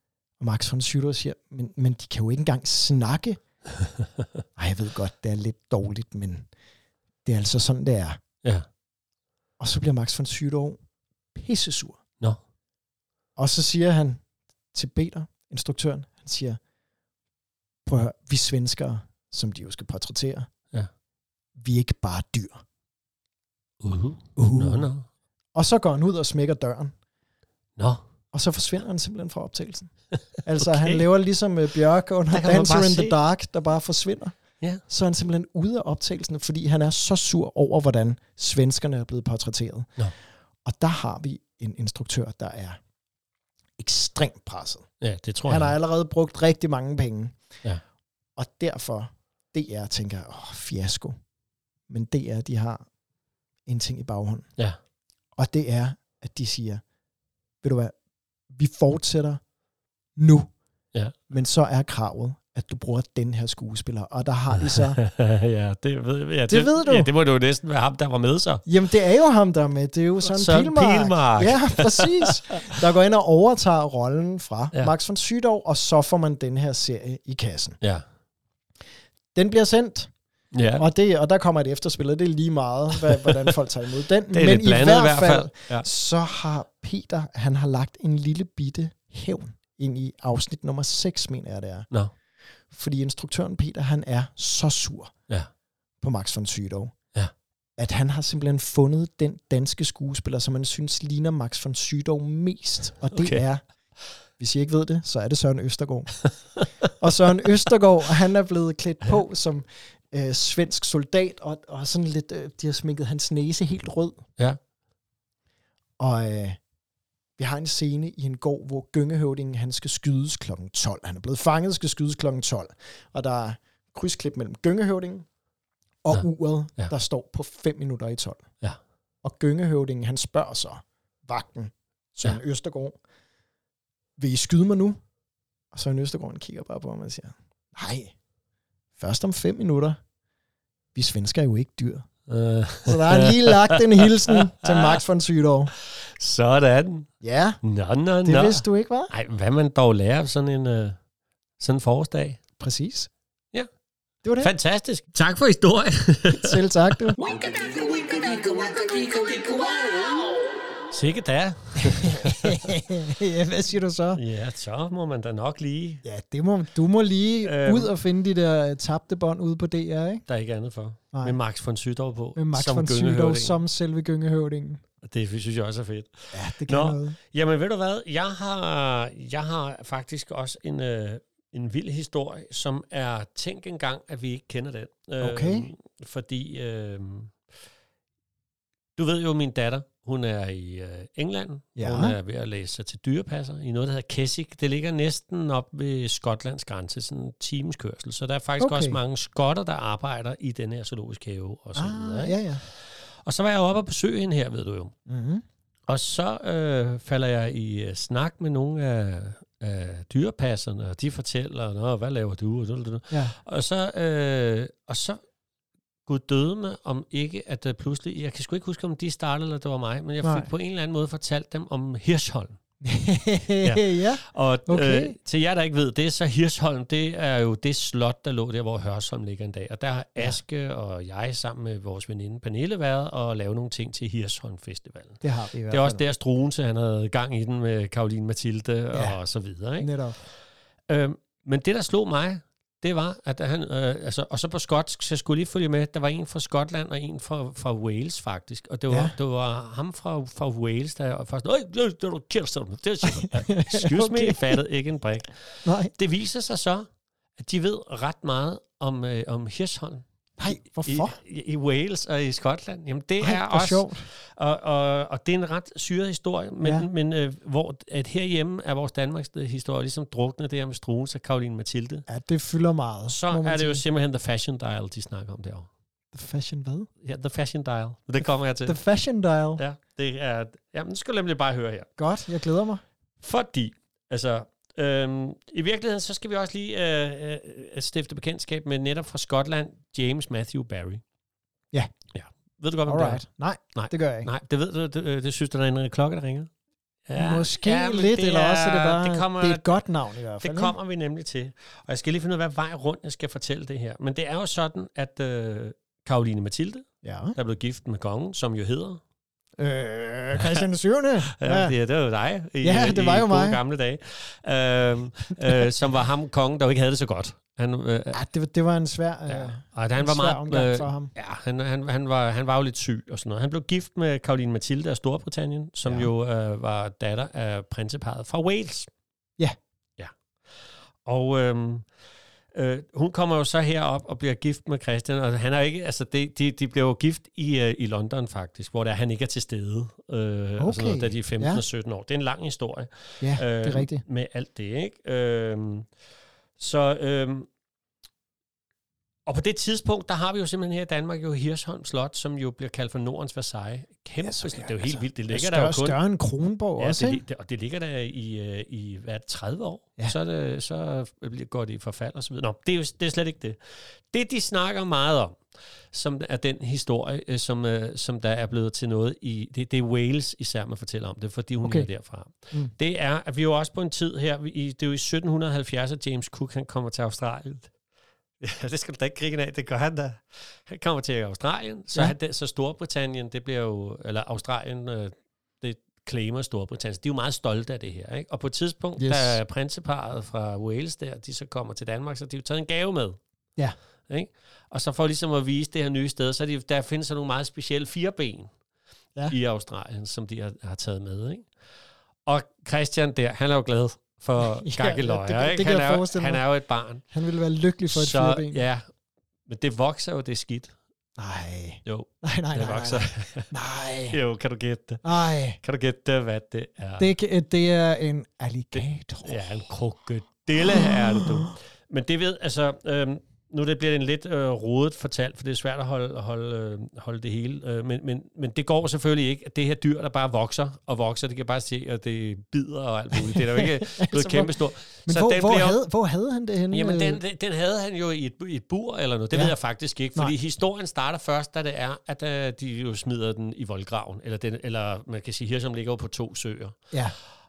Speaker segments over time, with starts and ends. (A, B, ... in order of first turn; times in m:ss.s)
0:00.4-0:03.4 A
0:04.6-0:06.5 A
0:07.2-0:08.2 A
0:09.6-0:10.8 A
0:11.3-0:12.0 A
0:13.4-0:14.2 A
0:14.7-0:16.6 A
0:17.8-0:20.5 A
0:21.6-0:22.6 A
0:23.8-0:25.0 B
0:24.4-0:24.9 A
0:25.5-0:26.9 A
0:28.3-0:29.9 A
0:30.4-0:39.9 A
0:30.6-0:31.1 B
0:32.3-0:33.2 B
0:40.6-0:42.8 A
0:43.8-0:44.8 A
0:45.0-0:45.8 B
0:45.5-0:47.4 A
0:48.4-0:51.1 A
0:51.9-0:52.8 A
0:53.7-0:54.5 A
0:55.4-0:56.8 A
0:57.6-0:57.9 A
0:58.5-0:59.4 A
1:00.2-1:00.5 A
1:01.3-1:05.0 A
1:04.6-1:08.6 B
1:06.5-1:07.1 A
1:08.6-1:17.8 A
1:10.2-1:12.8 B
1:19.3-1:20.1 A
1:20.5-1:20.8 B
1:20.8-1:31.9 A
1:23.0-1:23.4 B
1:24.3-1:25.9 B
1:32.7-1:35.1 A
1:36.0-1:36.9 A
1:37.8-1:43.6 A
1:43.1-1:43.4 B
1:44.4-1:46.2 A
1:46.8-1:54.2 A
1:56.0-1:56.6 A
1:57.4-2:05.2 A
2:06.0-2:08.4 A
2:09.2-2:12.9 A
2:14.2-2:15.0 A
2:15.7-2:18.1 A
2:19.0-2:20.0 A
2:20.9-2:22.0 A
2:22.3-2:25.0 B
2:22.8-2:25.7 A
2:26.2-2:27.1 B
2:27.2-2:27.6 A
2:27.6-2:31.0 B
2:28.2-2:29.1 A
2:31.6-2:32.4 B
2:32.6-2:33.1 A
2:34.2-2:34.5 A
2:34.4-2:36.6 B
2:36.3-2:37.2 A
2:37.2-2:40.3 B
2:40.9-2:42.7 B
2:41.8-2:44.2 A
2:44.1-2:46.0 B
2:46.0-2:50.2 A
2:47.4-2:47.9 B
2:50.3-2:53.6 B
2:51.1-2:51.4 A
2:52.4-2:54.8 A
2:55.0-3:07.3 B
2:56.3-2:57.2 A
3:05.2-3:05.7 A
3:09.0-3:24.9 B
3:11.8-3:12.2 A
3:18.6-3:19.0 A
3:21.7-3:22.6 A
3:25.1-3:25.4 A
3:25.9-3:35.2 B
3:33.1-3:33.4 A
3:36.0-3:42.6 B
3:40.2-3:40.5 A
3:42.8-3:45.2 A
3:43.6-4:00.2 B
3:55.2-3:56.1 A
3:58.9-3:59.2 A
3:59.8-4:00.2 A
4:00.9-4:16.8 B
4:08.9-4:09.2 A
4:13.1-4:14.6 A
4:15.6-4:15.9 A
4:17.4-4:32.0 B
4:20.4-4:21.2 A
4:23.2-4:24.0 A
4:26.6-4:26.9 A
4:32.1-4:33.8 A
4:33.1-4:35.7 B
4:36.1-4:36.9 A
4:37.0-4:38.8 B
4:38.6-4:39.6 A
4:39.6-4:41.9 B
4:42.0-4:42.8 A
4:43.2-4:51.0 B
4:52.1-4:53.2 B
4:52.9-4:54.3 A
4:53.7-4:56.5 B
4:57.1-4:59.8 B
4:57.1-5:00.8 A
5:00.4-5:09.0 B
5:07.0-5:07.4 A
5:09.6-5:11.7 A
5:10.3-5:10.7 B
5:11.2-5:18.2 B
5:12.6-5:13.6 A
5:15.4-5:15.7 A
5:18.1-5:21.1 A
5:19.3-5:28.9 B
5:25.8-5:26.1 A
5:31.0-5:31.8 B
5:32.5-5:45.9 B
5:40.6-5:41.6 A
5:43.2-5:44.0 A
5:46.6-5:47.5 B
5:49.2-5:56.0 B
5:54.2-5:57.2 A
5:56.8-6:03.6 B
6:04.1-6:05.4 B
6:05.9-6:17.7 B
6:11.6-6:11.9 A
6:18.4-6:33.2 B
6:29.0-6:29.4 A
6:34.1-6:38.5 B
6:39.3-6:41.4 B
6:42.2-6:47.0 B
6:44.4-6:46.4 A
6:47.1-6:48.6 A
6:47.9-6:48.8 B
6:49.5-6:50.7 B
6:51.2-6:54.2 A
6:51.8-6:53.5 B
6:54.1-6:57.1 B
6:55.0-6:55.6 A
6:57.0-6:59.6 A
6:58.7-7:15.8 B
7:00.6-7:01.6 A
7:13.2-7:14.5 A
7:15.0-7:17.2 A
7:16.7-7:26.9 B